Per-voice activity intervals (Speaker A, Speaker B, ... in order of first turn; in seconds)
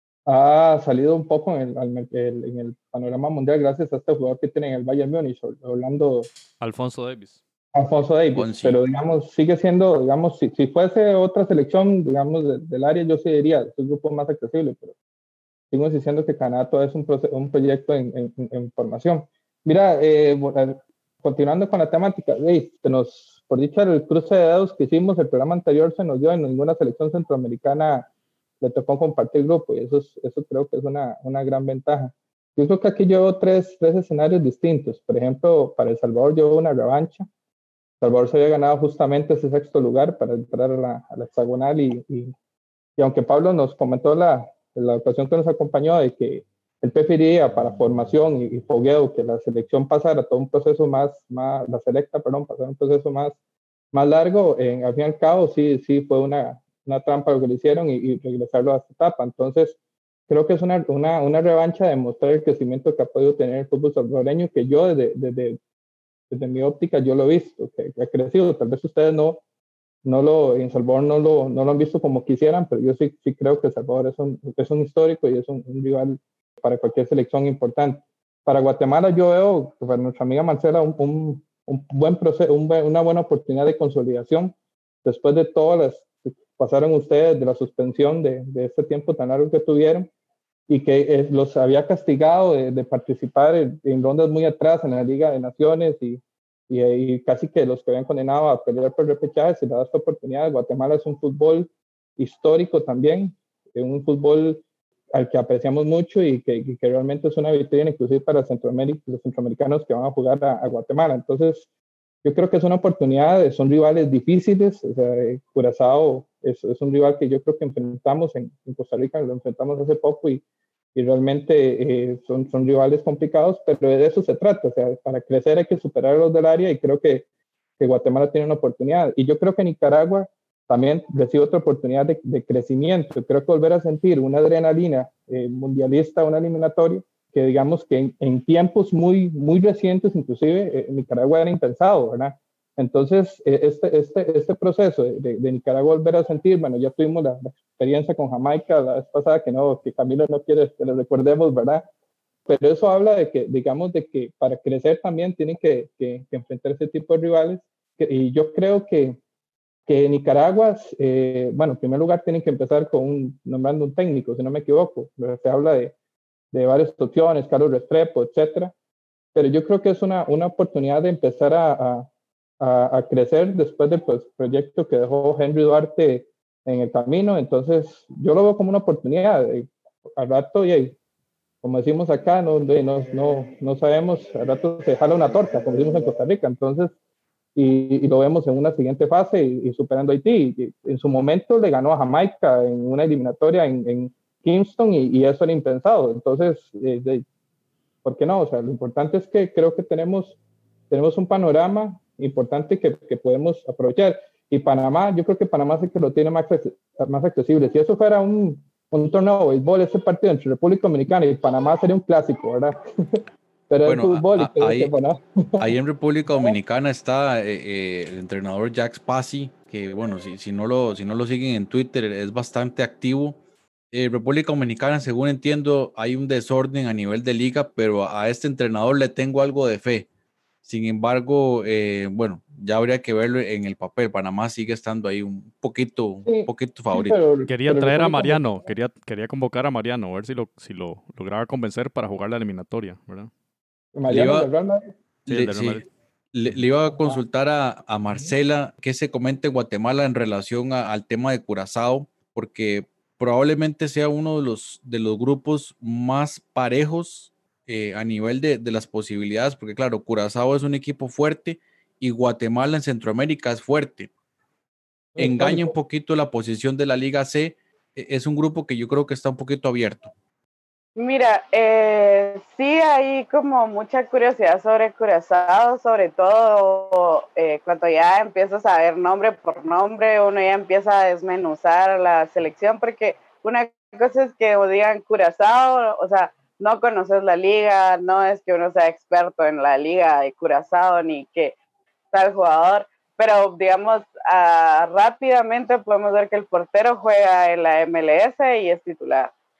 Speaker A: 0.2-6.3, 7.7-14.9, 15.7-28.1, 28.6-37.3, 38.0-42.3, 43.0-53.4, 53.9-59.8, 60.3-65.6, 66.3-69.4, 70.0-90.1, 90.7-104.6, 105.1-111.7, 112.2-120.4, 120.9-127.2, 127.8-151.8, 152.4-159.2, 159.9-165.9, 166.5-168.7, 169.3-172.1, 172.6-181.0, 181.6-186.9, 187.6-197.2, 198.0-200.4, 200.9-215.7, 216.3-216.6, 236.2-238.6, 243.9-244.9, 265.1-265.8
Speaker B: 6.6-7.4, 237.5-243.3, 245.3-245.8
Speaker C: 8.3-8.8, 213.8-214.9, 215.6-223.4, 223.9-230.1, 230.7-237.2, 244.1-244.5, 245.3-264.1, 265.2-270.1
Speaker D: 271.0-291.5, 292.1-299.3